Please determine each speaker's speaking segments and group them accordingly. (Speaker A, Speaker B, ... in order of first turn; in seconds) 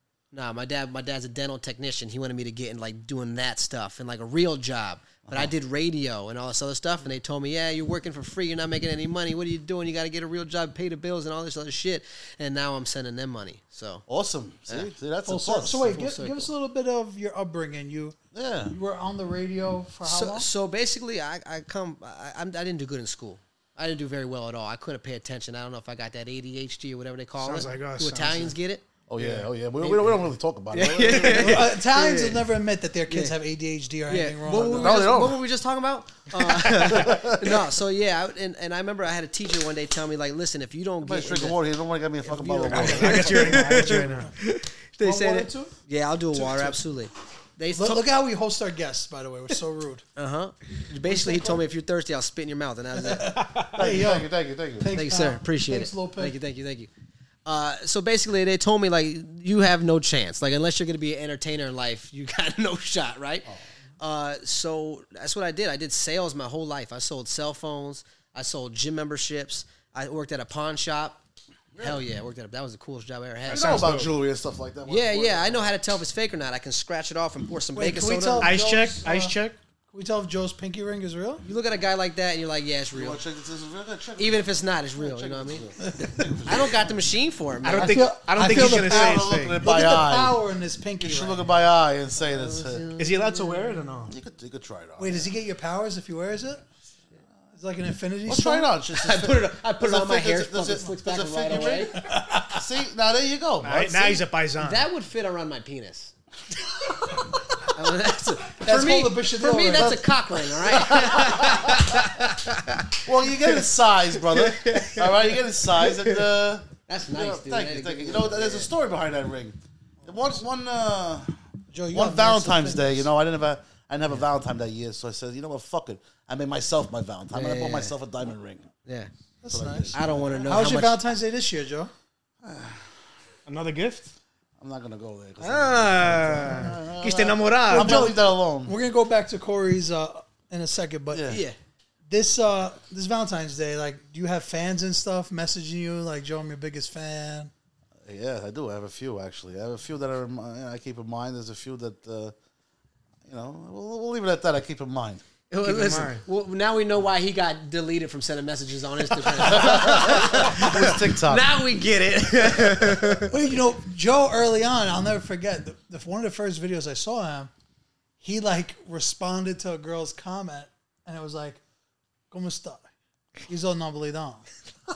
Speaker A: 0.3-14.0, 15.9-16.5, 20.0-28.8, 29.8-30.2, 30.7-32.4, 33.1-33.4, 34.1-41.6, 42.2-48.0, 50.1-53.3, 54.9-56.9, 57.4-63.5, 64.0-71.2, 71.8-73.9, 74.9-78.5, 81.4-83.2, 84.2-85.7, 86.4-88.0, 92.3-93.8, 98.9-101.9, 104.6-106.1, 107.6-112.6, 116.9-118.7, 127.3-127.9, 128.8-129.1, 129.9-131.0, 141.3-141.6, 155.5-163.3
Speaker B: 5.2-5.5, 14.1-15.9, 18.3-18.8, 29.1-31.8, 34.5-35.4, 36.9-37.6, 41.0-43.9, 53.7-55.0, 73.4-75.7, 82.9-87.0, 87.8-90.4, 91.0-92.8, 94.1-95.3, 98.2-102.0, 102.5-104.2, 110.7-111.9, 113.0-121.4, 121.9-128.7, 129.5-130.8, 132.4-132.9, 134.6-138.8, 141.1-141.4, 148.0-152.3, 153.2-155.2, 159.4-161.5
Speaker C: 15.2-18.1, 18.7-20.5, 31.1-35.0, 42.7-44.3, 45.0-45.7, 46.3-46.8, 47.7-50.0, 51.0-51.6, 52.9-56.4, 77.7-79.3, 79.9-81.4, 87.8-91.4, 95.0-96.6, 97.5-98.7, 101.5-102.6, 108.6-110.9, 121.7-123.1, 129.4-129.9, 130.4-131.9, 137.7-141.3, 142.1-147.5, 163.2-167.5, 168.2-171.6, 172.3-172.9, 173.4-174.4
Speaker D: 27.4-28.5, 29.2-29.5, 36.6-37.1, 42.6-44.3, 73.5-74.1, 78.4-79.6, 87.6-89.6, 93.0-94.2, 103.6-104.9, 111.7-112.1, 114.3-115.1, 133.4-134.1, 135.4-138.1, 155.6-156.2